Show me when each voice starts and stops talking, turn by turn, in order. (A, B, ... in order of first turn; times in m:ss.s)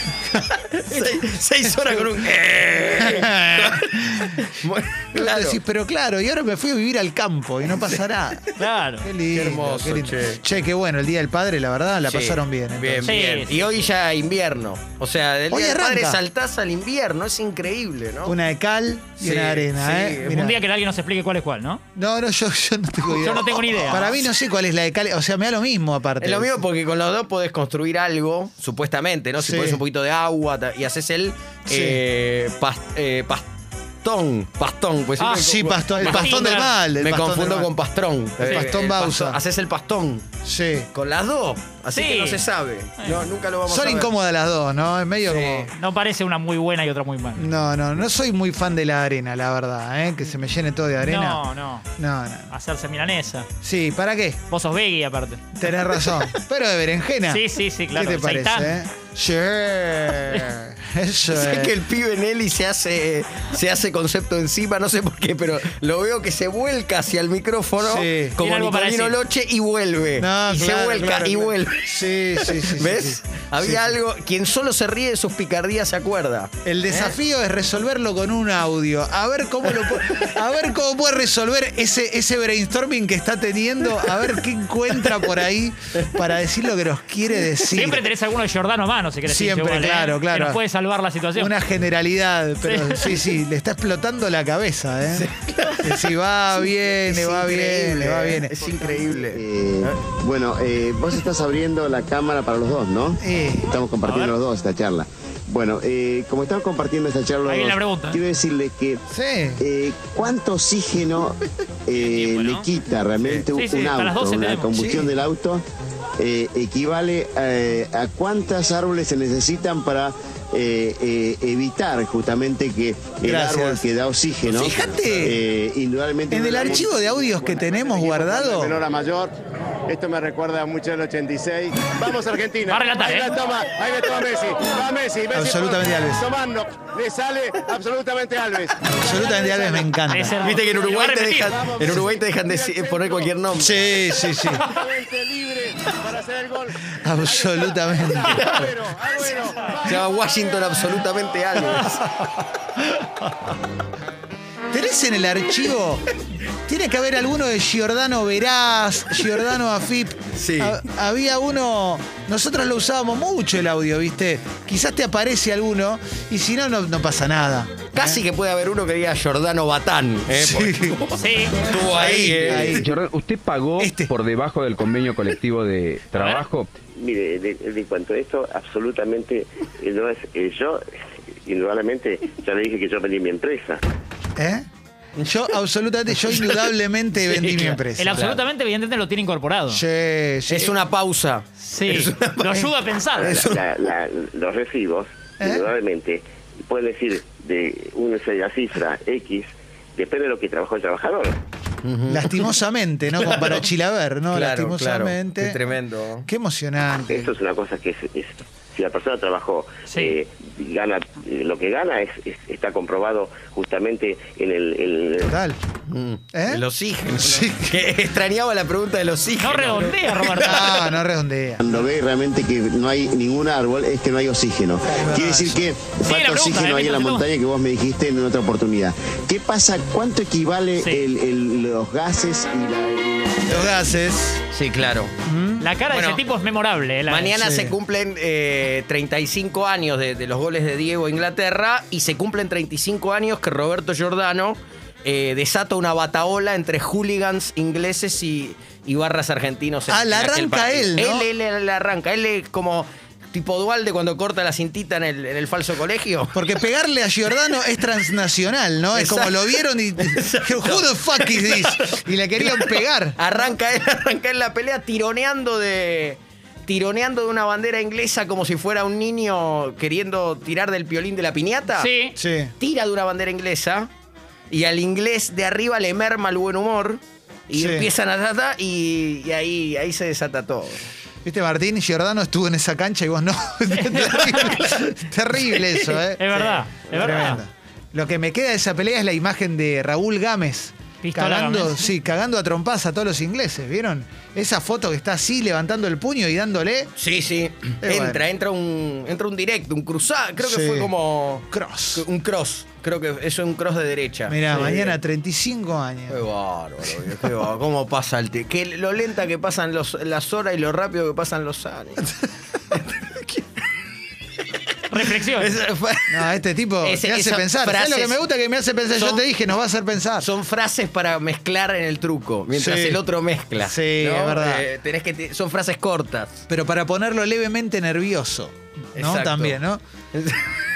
0:00.3-0:05.6 A
0:03.0-0:04.3 B
0:05.1-0:08.5 B
0:08.6-0:09.1 C
0:09.0-0:13.2 B
0:09.3-0:10.4 A
0:12.1-0:18.4 A
0:13.0-0:13.6 C
0:15.5-0:16.2 B
0:18.2-0:20.6 B
0:19.2-0:20.4 A
0:20.3-0:21.8 C
0:21.9-0:26.6 B
0:23.1-0:24.1 C
0:26.2-0:33.5 A
0:29.4-0:29.8 B
0:31.7-0:32.0 B
0:34.0-0:40.2 A
0:35.2-0:37.7 B
0:36.0-0:36.7 C
0:38.4-0:39.4 B
0:38.4-0:38.7 C
0:40.4-0:40.9 B
0:40.9-0:44.1 A
0:41.9-0:42.4 C
0:43.7-0:45.7 B
0:45.3-0:45.7 A
0:45.7-0:47.5 C
0:47.4-0:51.4 B
0:51.0-0:51.8 C
0:52.0-0:52.5 B
0:52.5-0:53.5 C
0:53.6-0:54.4 B
0:54.5-0:55.4 C
0:55.5-1:01.7 B
0:57.3-0:58.7 C
1:01.3-1:17.1 A
1:07.8-1:08.4 B
1:08.4-1:09.1 C
1:10.2-1:13.9 B
1:16.6-1:28.0 B
1:27.7-1:31.5 C
1:29.2-1:30.6 B
1:31.4-1:35.3 B
1:32.6-1:33.1 C
1:35.1-1:40.0 A
1:35.8-1:38.6 B
1:39.2-1:43.2 D
1:43.2-1:43.7 B
1:43.7-1:49.0 D
1:44.0-1:44.4 C
1:47.5-1:48.2 C
1:49.1-1:49.6 B
1:49.6-1:51.4 D
1:51.9-1:55.6 D
1:51.9-1:52.7 C
1:53.5-1:54.8 C
1:54.7-1:55.1 B
1:56.2-2:07.1 D
2:03.2-2:03.8 B
2:04.5-2:05.4 B
2:04.7-2:05.2 A
2:06.3-2:08.8 B
2:07.6-2:09.3 E
2:09.9-2:19.9 E
2:12.7-2:13.4 C
2:15.3-2:16.2 B
2:18.9-2:20.4 B
2:20.1-2:21.5 C
2:20.4-2:23.8 A
2:21.4-2:23.4 E
2:23.5-2:24.6 B
2:24.6-2:30.7 E
2:26.9-2:28.5 B
2:28.3-2:28.7 A
2:29.8-2:32.0 A
2:34.7-2:36.0 B
2:36.7-2:48.2 B
2:40.3-2:40.8 A
2:47.9-2:52.9 A
2:50.3-2:51.0 B
2:51.1-2:51.6 C
2:51.7-2:52.9 B
2:52.8-2:56.7 F
2:53.8-2:54.1 B
2:56.1-2:56.4 C
2:56.9-3:00.8 G
3:01.4-3:03.8 G
3:04.4-3:04.6 B
3:05.2-3:08.3 B
3:07.4-3:09.8 C
3:07.6-3:08.4 A
3:09.7-3:10.8 B
3:10.5-3:13.6 A
3:11.6-3:13.4 C
3:13.3-3:21.4 G
3:15.4-3:15.7 B
3:21.8-3:22.5 A
3:22.1-3:25.6 B
3:23.2-3:23.6 A
3:24.3-3:26.3 A
3:26.3-3:27.3 B
3:27.1-3:35.3 G
3:29.9-3:30.2 C
3:35.2-3:35.6 B
3:35.9-3:40.6 A
3:36.3-3:36.6 B
3:37.2-3:37.8 B
3:39.4-3:40.7 C
3:40.4-3:41.8 B
3:41.6-3:53.6 D
3:44.8-3:45.6 B
3:46.0-3:47.3 C
3:50.8-3:51.0 C
3:53.5-3:54.4 B
3:54.5-3:55.1 A
3:55.2-3:55.7 B
3:55.6-3:57.5 C
3:55.9-3:56.2 A
3:57.1-4:16.4 A
3:57.4-3:57.7 B
4:09.9-4:11.3 B
4:16.3-4:23.2 B
4:18.9-4:31.9 A
4:31.8-4:32.2 C
4:32.2-4:32.5 B
4:32.6-4:33.9 A
4:34.5-4:40.8 A
4:37.5-4:37.9 B
4:41.2-4:56.9 B
4:43.7-4:44.5 C
4:44.1-4:47.3 A
4:46.2-4:47.4 C
4:51.0-4:51.9 C
4:57.0-5:05.0 A
4:57.8-4:58.2 B
5:00.4-5:00.9 B
5:01.5-5:02.0 B
5:04.3-5:06.2 B
5:06.1-5:12.1 A
5:12.7-5:13.4 A
5:14.9-5:15.5 C
5:14.9-5:18.2 A
5:16.1-5:20.3 B
5:18.9-5:19.2 A
5:20.2-5:26.4 A
5:22.5-5:23.0 B
5:23.6-5:24.6 B
5:26.5-5:29.8 B
5:29.0-5:29.6 A
5:30.1-5:30.5 A